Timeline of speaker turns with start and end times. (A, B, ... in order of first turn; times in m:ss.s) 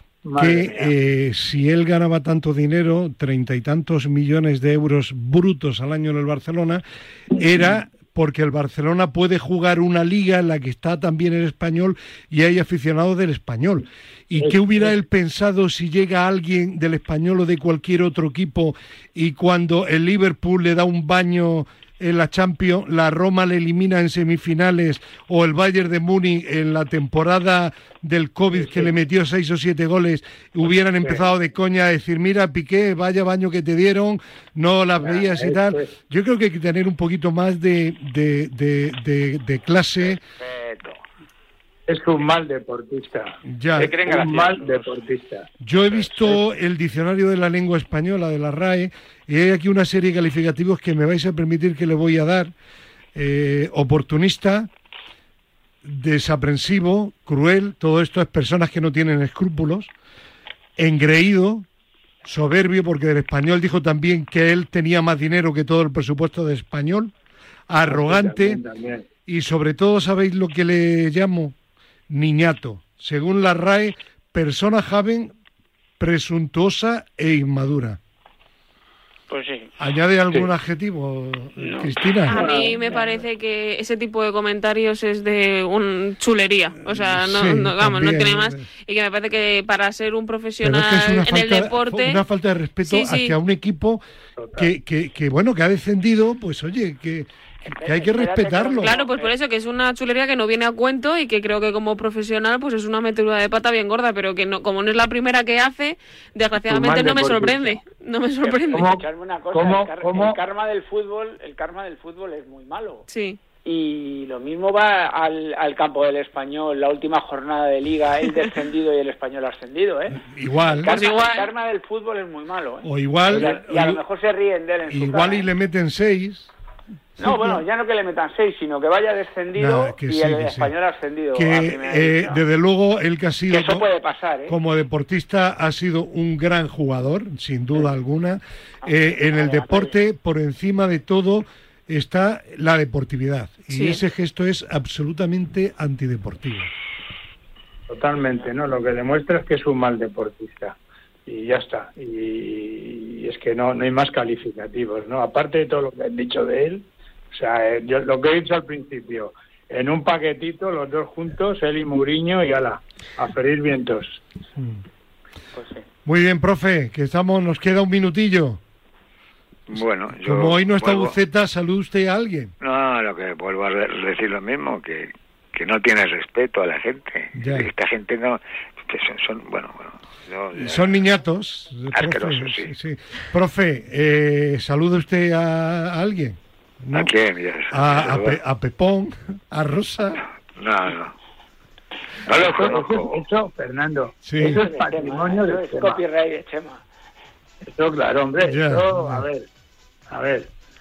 0:00.2-0:00.9 A
0:00.4-0:40.2 B
0:14.4-0:14.9 A
0:28.5-0:28.9 A
0:31.0-0:31.3 A
0:35.0-0:35.9 A
0:40.0-0:41.0 C
0:41.9-0:45.5 A
0:43.4-0:43.9 B
0:43.8-0:44.9 D
0:45.6-0:52.5 B
0:53.1-0:54.7 B
0:55.8-0:59.9 B
1:00.8-1:01.6 B
1:02.2-1:07.1 B
1:07.7-1:08.6 B
1:07.8-1:09.1 A
1:09.3-1:11.6 B
1:12.1-1:15.3 B
1:16.0-1:18.0 B
1:19.3-1:19.7 D
1:19.8-1:22.4 B
1:21.6-1:21.9 D
1:22.2-1:32.2 E
1:22.3-1:22.7 A
1:22.5-1:23.2 D
1:26.8-1:28.6 B
1:30.6-1:34.0 B
1:32.8-1:33.3 E
1:34.4-1:34.7 A
1:34.6-1:38.9 B
1:37.6-1:39.3 D
1:38.8-1:48.9 E
1:46.7-1:47.8 A
1:48.4-1:53.0 D
1:48.7-1:50.4 A
1:53.1-1:53.4 E
1:53.6-2:05.5 D
2:00.2-2:00.9 B
2:00.8-2:01.5 E
2:02.8-2:04.0 B
2:04.9-2:06.5 B
2:07.2-2:07.6 B
2:07.2-2:12.4 D
2:09.6-2:10.7 B
2:11.3-2:13.8 B
2:13.5-2:14.6 D
2:14.5-2:26.7 B
2:18.8-2:19.9 D
2:23.7-2:24.0 E
2:27.9-2:44.2 A
2:44.6-2:44.8 B
2:45.5-2:45.9 D
2:46.0-2:48.6 B
2:49.7-2:51.1 C
2:50.2-2:52.5 B
2:52.6-3:01.0 C
2:57.4-2:57.7 B
3:00.5-3:07.1 B
3:01.9-3:02.7 C
3:06.9-3:08.4 C
3:07.7-3:10.2 B
3:10.5-3:11.1 C
3:12.2-3:13.2 C
3:12.3-3:16.0 A
3:14.2-3:14.6 B
3:14.4-3:16.8 D
3:17.6-3:19.4 A
3:18.4-3:19.2 B
3:20.1-3:20.5 A